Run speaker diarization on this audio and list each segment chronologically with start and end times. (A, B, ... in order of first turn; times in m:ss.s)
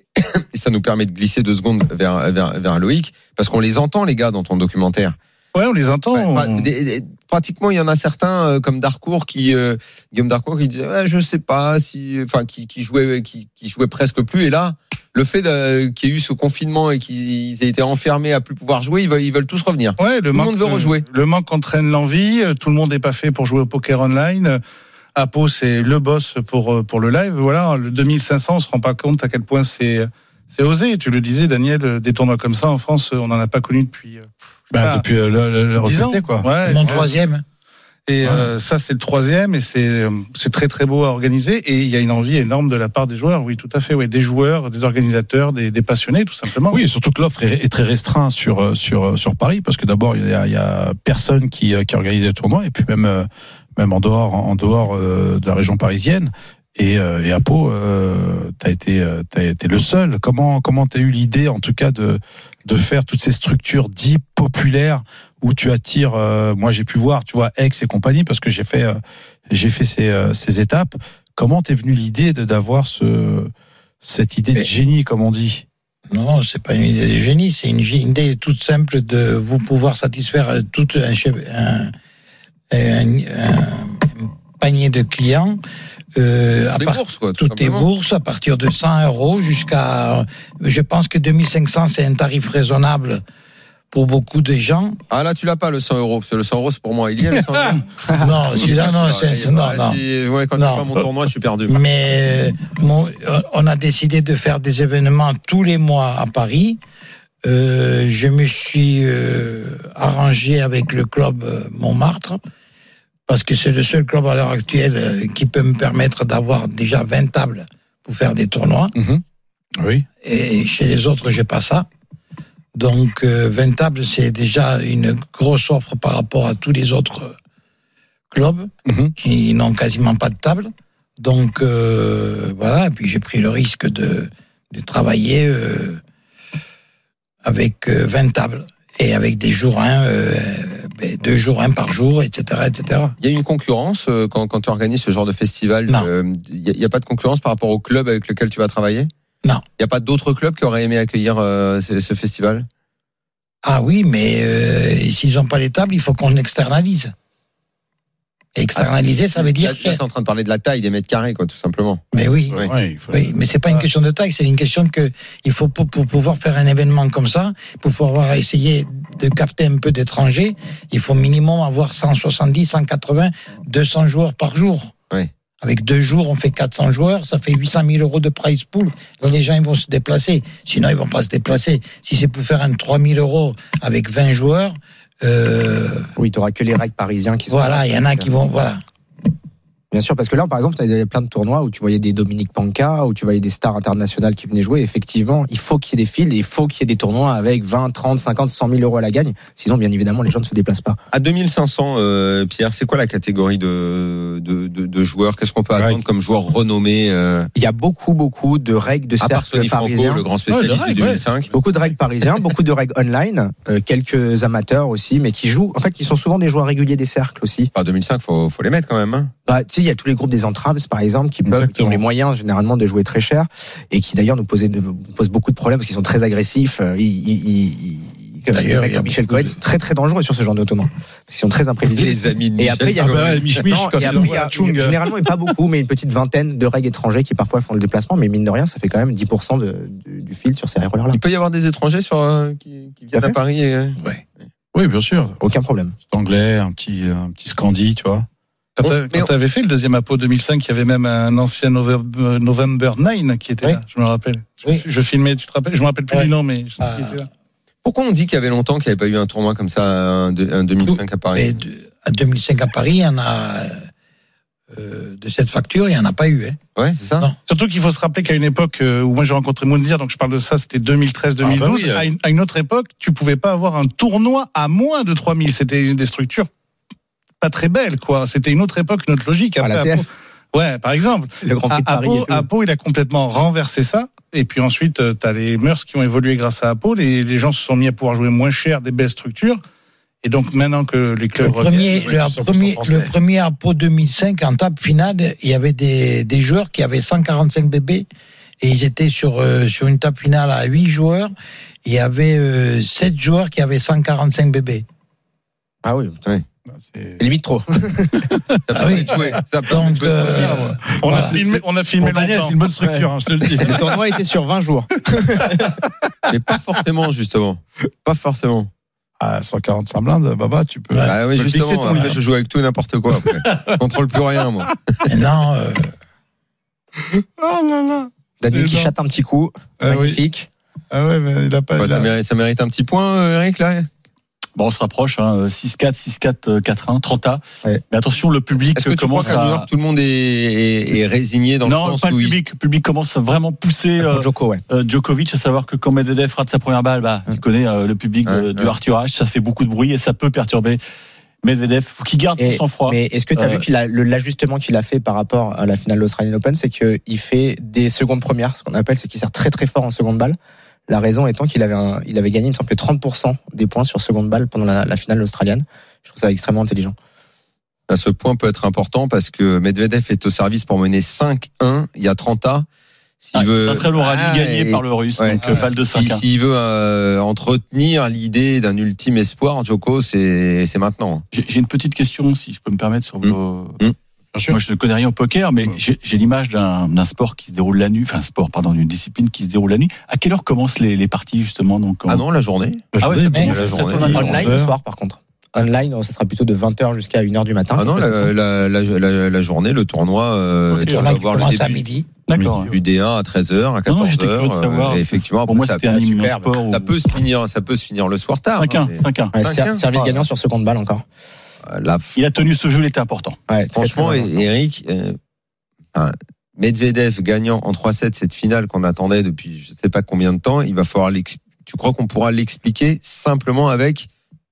0:00.2-0:05.2 A
0:05.5-0:06.7 B
0:06.1-0:21.0 A
0:20.0-0:24.6 B
0:25.1-0:35.0 B
0:34.7-0:37.0 C
0:35.8-0:37.2 B
0:36.6-0:37.4 D
0:38.0-0:46.8 B
0:38.2-0:38.5 C
0:46.7-1:15.6 C
1:16.1-1:21.9 D
1:22.7-1:25.6 D
1:26.2-1:33.2 D
1:26.7-1:27.9 A
1:33.9-1:35.0 D
1:35.1-1:37.8 A
1:38.2-1:40.0 D
1:38.5-1:41.7 A
1:40.6-1:40.8 D
1:41.7-1:46.8 D
1:47.4-1:52.4 D
1:53.3-1:58.9 D
1:58.9-1:59.2 C
1:59.8-2:00.0 C
2:00.2-2:01.9 D
2:02.7-2:07.3 D
2:08.3-2:16.0 D
2:08.8-2:09.1 C
2:17.4-2:23.2 D
2:23.2-2:29.1 A
2:29.8-2:32.6 A
2:33.6-2:37.1 D
2:38.6-2:40.0 D
2:38.8-2:42.7 A
2:42.1-2:42.6 D
2:42.5-2:43.8 C
2:43.1-2:54.9 D
2:55.6-3:06.1 D
3:06.2-3:08.3 E
3:07.5-3:08.8 D
3:09.9-3:21.0 E
3:21.1-3:27.5 A
3:27.5-3:30.2 E
3:29.2-3:31.5 A
3:30.5-3:31.2 B
3:31.5-3:37.7 E
3:37.7-3:39.3 A
3:39.5-4:01.2 E
3:41.4-3:42.0 C
3:48.5-3:49.2 D
3:51.9-3:53.6 A
3:53.0-3:55.1 C
4:01.1-4:04.0 A
4:04.7-4:05.4 C
4:05.4-4:05.9 E
4:06.1-4:08.2 C
4:08.8-4:17.3 B
4:08.8-4:09.3 A
4:16.1-4:17.1 D
4:17.8-4:21.5 A
4:20.9-4:23.8 D
4:24.7-4:26.6 D
4:26.8-4:27.3 A
4:27.5-4:36.5 B
4:31.4-4:32.1 C
4:37.4-4:49.6 B
4:39.6-4:40.1 E
4:41.4-4:42.4 E
4:50.2-4:52.5 B
4:51.5-4:58.0 D
4:51.9-4:53.1 C
4:58.6-5:01.3 D
5:01.8-5:04.8 D
5:05.8-5:06.3 E
5:06.7-5:07.2 C
5:07.2-5:08.3 E
5:08.7-5:10.7 A
5:08.7-5:11.4 D
5:10.3-5:13.9 C
5:11.0-5:12.6 B
5:13.6-5:15.7 E
5:16.3-5:18.7 A
5:19.2-5:22.2 C
5:21.1-5:25.0 A
5:23.2-5:23.7 C
5:25.1-5:25.9 D
5:27.4-5:28.9 C
5:28.4-5:30.5 E
5:29.8-5:30.2 C
5:30.9-5:32.1 C
5:31.8-5:33.9 A
5:34.6-5:39.7 F
5:38.8-5:42.4 A
5:41.6-5:50.8 F
5:44.0-5:44.6 E
5:48.2-5:48.7 A
5:51.4-5:53.6 F
5:52.4-6:00.4 E
6:00.9-6:06.9 E
6:07.9-6:12.6 A
6:13.2-6:21.2 A
6:13.3-6:16.2 F
6:21.3-6:23.8 F
6:23.2-6:23.9 A
6:24.5-6:32.2 F
6:32.1-6:34.4 A
6:32.9-6:34.8 C
6:33.0-6:34.5 F
6:33.3-6:38.3 E
6:37.8-6:41.8 A
6:40.7-6:41.2 F
6:40.9-6:42.1 D
6:42.3-6:42.7 F
6:42.3-6:42.7 C
6:42.7-6:45.9 A
6:43.9-6:46.9 F
6:45.8-6:46.7 E
6:46.7-6:49.8 A
6:48.6-6:49.3 F
6:49.3-6:51.0 E
6:49.9-6:50.2 F
6:51.7-6:52.1 A
6:52.1-6:53.4 F
6:53.5-6:54.4 E
6:53.7-6:55.2 A
6:55.9-7:04.1 A